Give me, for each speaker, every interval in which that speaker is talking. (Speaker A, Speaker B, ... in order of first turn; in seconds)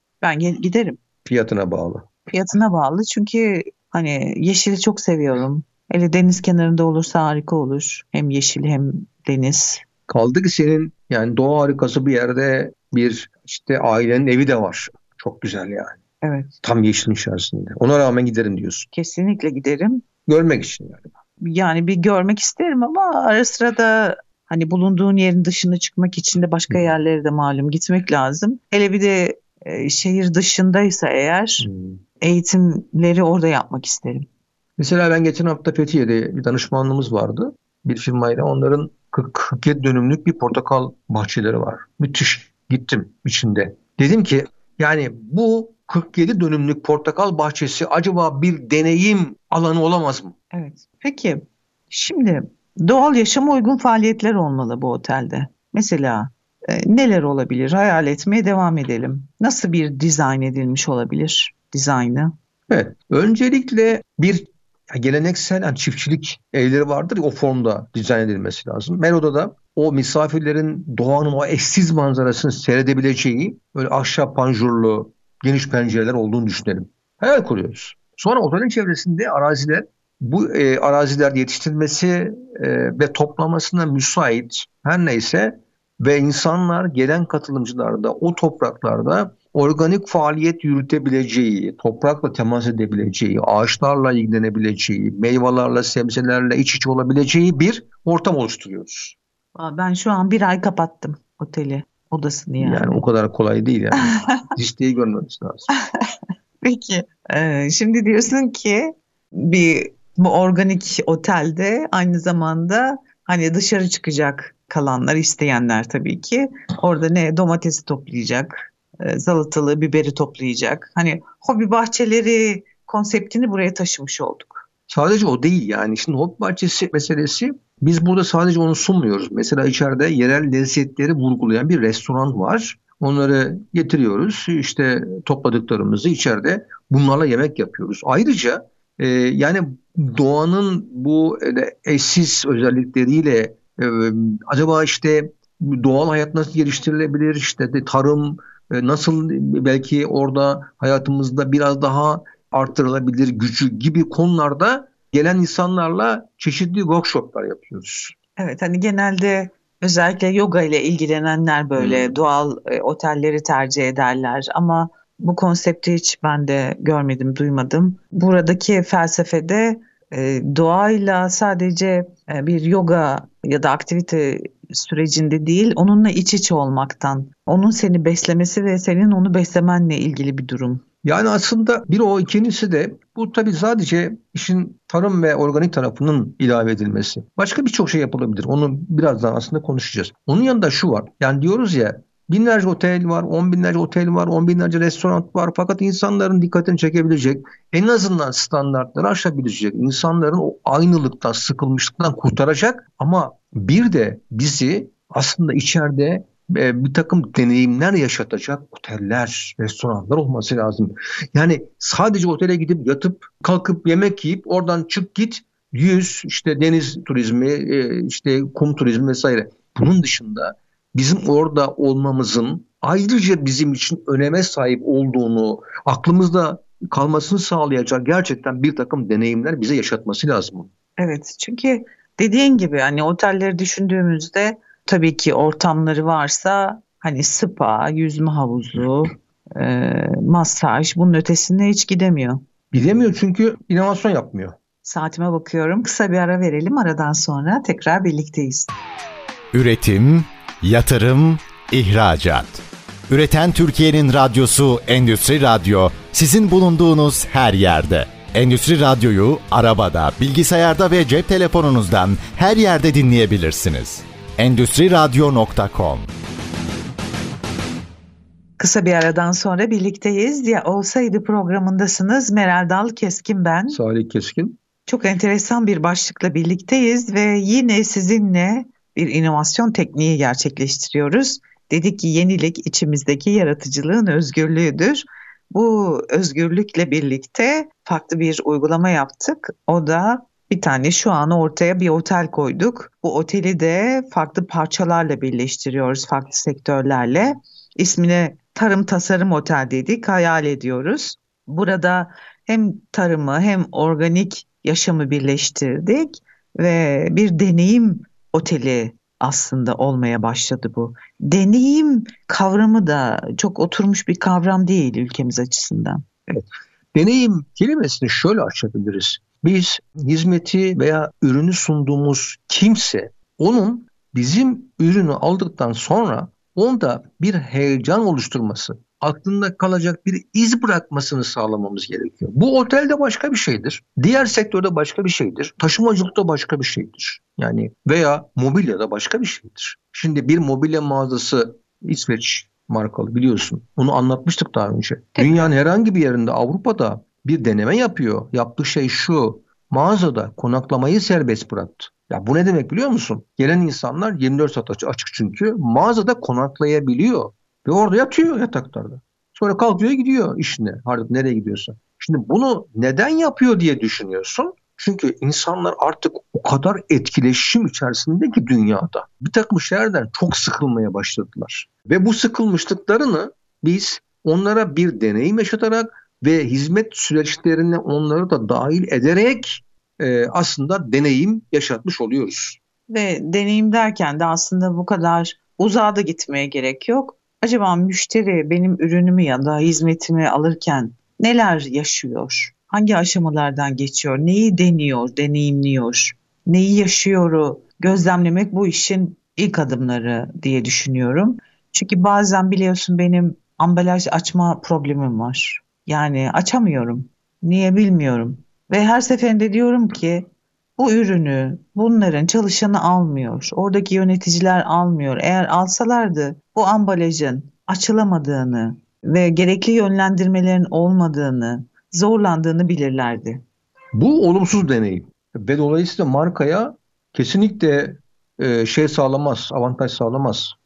Speaker A: 0.2-1.0, 2.3-9.8, 16.2-16.5, 18.9-20.1, 21.4-31.7, 32.2-34.3, 50.5-62.3, 99.5-103.0, 104.1-104.5, 106.6-124.6, 158.4-180.8, 231.0-242.4, 244.8-248.7, 268.6-273.8, 274.9-316.3, 345.2-345.5, 382.9-423.4
Speaker B: 1.2-2.1, 10.1-16.0, 16.6-18.9, 20.3-21.1, 31.6-32.0, 34.8-50.4, 62.7-99.2, 102.6-105.7, 124.9-158.2, 161.8-162.1, 181.0-230.7, 242.7-244.6, 273.7-274.6, 316.3-382.6, 423.9-430.6
Speaker C: 249.5-266.1